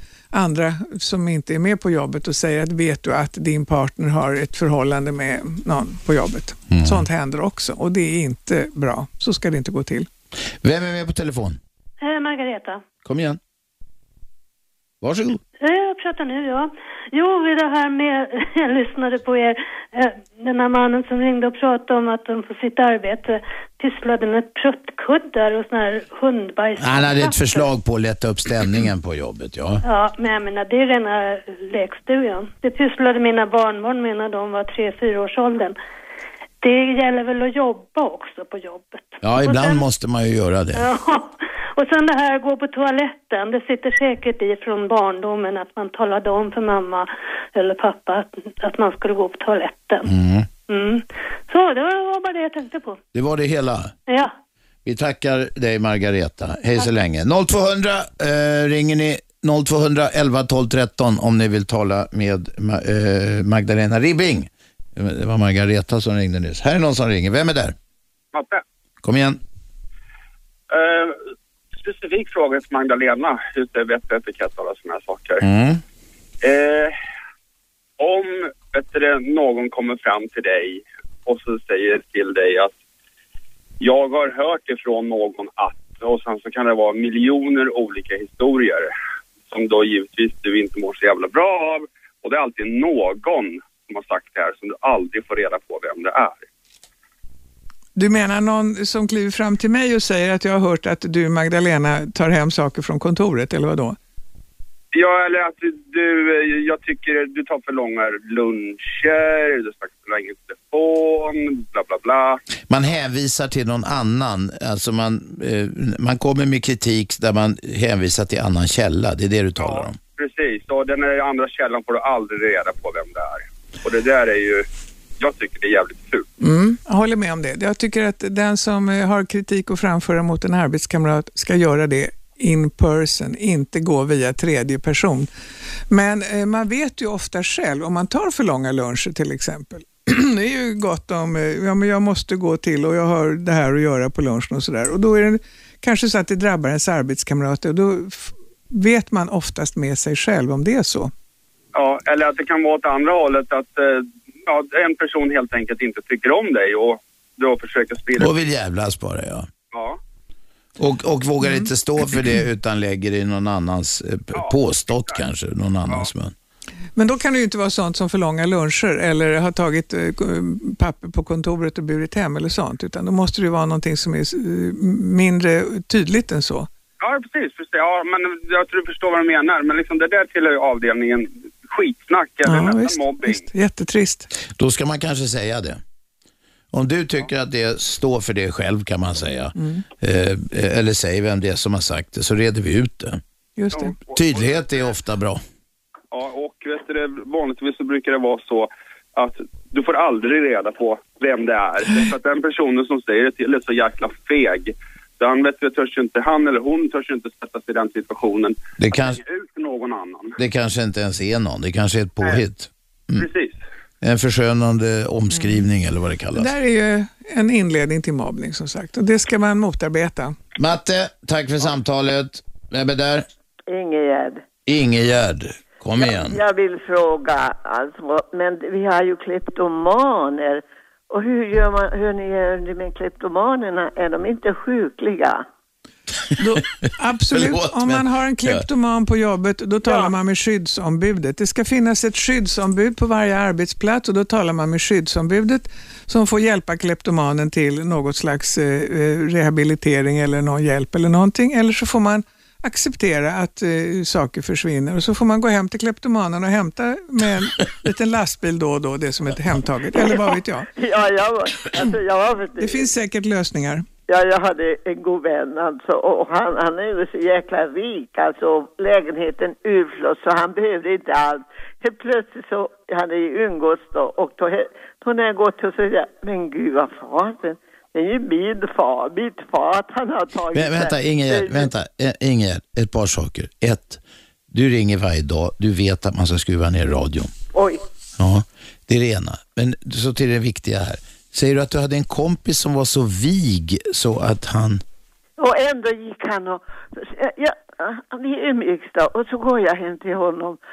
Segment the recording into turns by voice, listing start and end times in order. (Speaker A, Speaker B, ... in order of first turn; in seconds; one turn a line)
Speaker A: 0.3-10.1
Speaker B: 6.7-7.0
Speaker B: 10.6-11.6
Speaker C: 12.0-12.8
Speaker B: 13.0-13.4
Speaker B: 15.0-15.4
Speaker C: 15.6-27.6
Speaker B: 26.8-29.8
Speaker C: 29.8-35.8
Speaker C: 36.6-39.9
Speaker B: 39.2-40.9
Speaker C: 40.7-50.1
Speaker B: 50.0-50.5
Speaker C: 50.7-53.0
Speaker B: 53.1-53.9
Speaker C: 54.1-54.3
Speaker B: 54.8-67.8
Speaker D: 68.3-68.6
Speaker B: 69.0-69.4
Speaker D: 70.7-75.4
Speaker B: 75.4-75.8
Speaker D: 76.4-76.9
Speaker D: 78.0-82.7
Speaker D: 83.8-88.9
Speaker D: 89.5-96.4
Speaker A: 98.0-104.0
Speaker D: 104.9-112.4
Speaker B: 112.7-120.0
Speaker D: 119.6-124.7
Speaker D: 125.2-126.3
Speaker A: 126.4-135.3
Speaker A: 135.9-151.1
Speaker D: 151.7-158.3
Speaker B: 158.2-159.5
Speaker D: 159.7-160.0
Speaker B: 160.8-166.3
Speaker D: 164.3-165.3
Speaker A: 166.9-176.7
Speaker D: 177.0-183.5
Speaker A: 182.4-184.3
Speaker B: 184.6-185.8
Speaker B: 186.7-193.2
Speaker A: 189.6-189.8
Speaker A: 193.6-194.0
Speaker D: 193.7-194.5
Speaker B: 194.1-195.4
Speaker D: 196.1-210.3
Speaker B: 208.8-209.2
Speaker B: 210.4-213.2
Speaker D: 213.2-213.6
Speaker B: 214.0-216.5
Speaker A: 215.3-215.6
Speaker A: 216.3-220.3
Speaker B: 220.6-223.2
Speaker E: 223.7-224.4
Speaker B: 224.7-226.4
Speaker E: 226.0-235.4
Speaker A: 236.4-260.7
Speaker B: 237.3-238.7
Speaker E: 259.9-262.9
Speaker A: 262.6-263.8
Speaker E: 264.1-281.7
Speaker B: 280.5-287.3
Speaker E: 287.5-287.8
Speaker B: 288.2-294.8
Speaker E: 295.4-300.6